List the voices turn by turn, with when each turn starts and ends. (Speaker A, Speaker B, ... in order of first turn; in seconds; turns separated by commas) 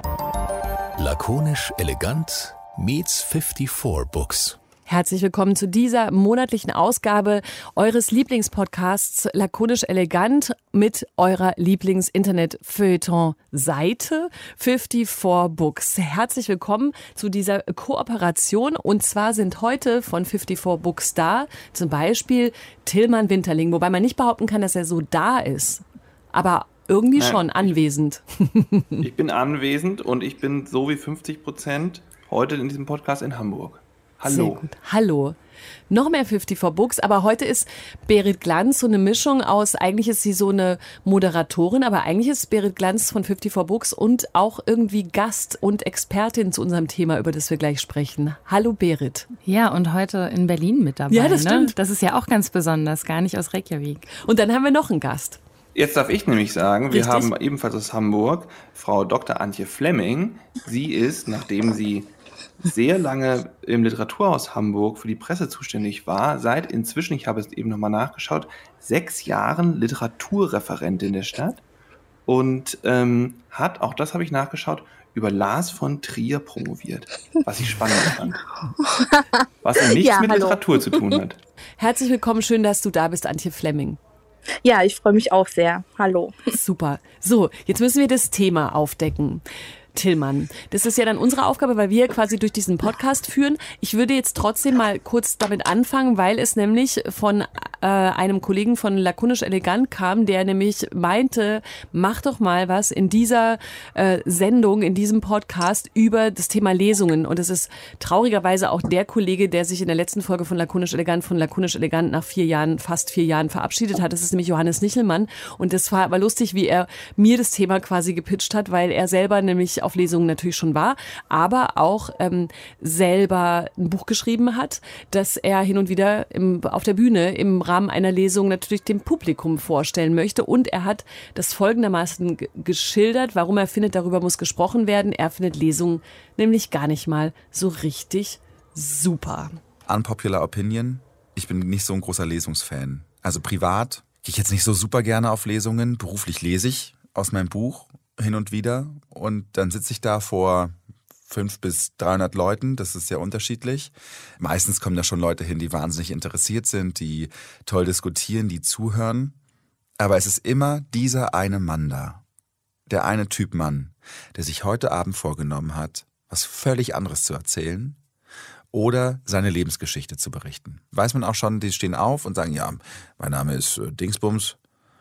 Speaker A: 1.0-4.6, Speaker B: 4.9-29.0, Speaker C: 27.2-27.5, Speaker C: 29.0-34.6, Speaker B: 34.3-35.4, Speaker B: 35.9-49.3, Speaker D: 49.4-54.1, Speaker B: 51.1-51.7, Speaker B: 54.2-55.4, Speaker C: 55.8-62.1, Speaker B: 56.9-57.3, Speaker C: 62.6-71.6, Speaker C: 72.3-78.4, Speaker E: 78.8-81.2, Speaker C: 79.6-81.4, Speaker B: 81.8-84.0, Speaker E: 84.6-86.3, Speaker B: 86.5-89.4, Speaker B: 90.0-139.6, Speaker F: 139.9-159.4, Speaker F: 160.0-162.2, Speaker F: 162.9-168.0, Speaker F: 168.7-174.6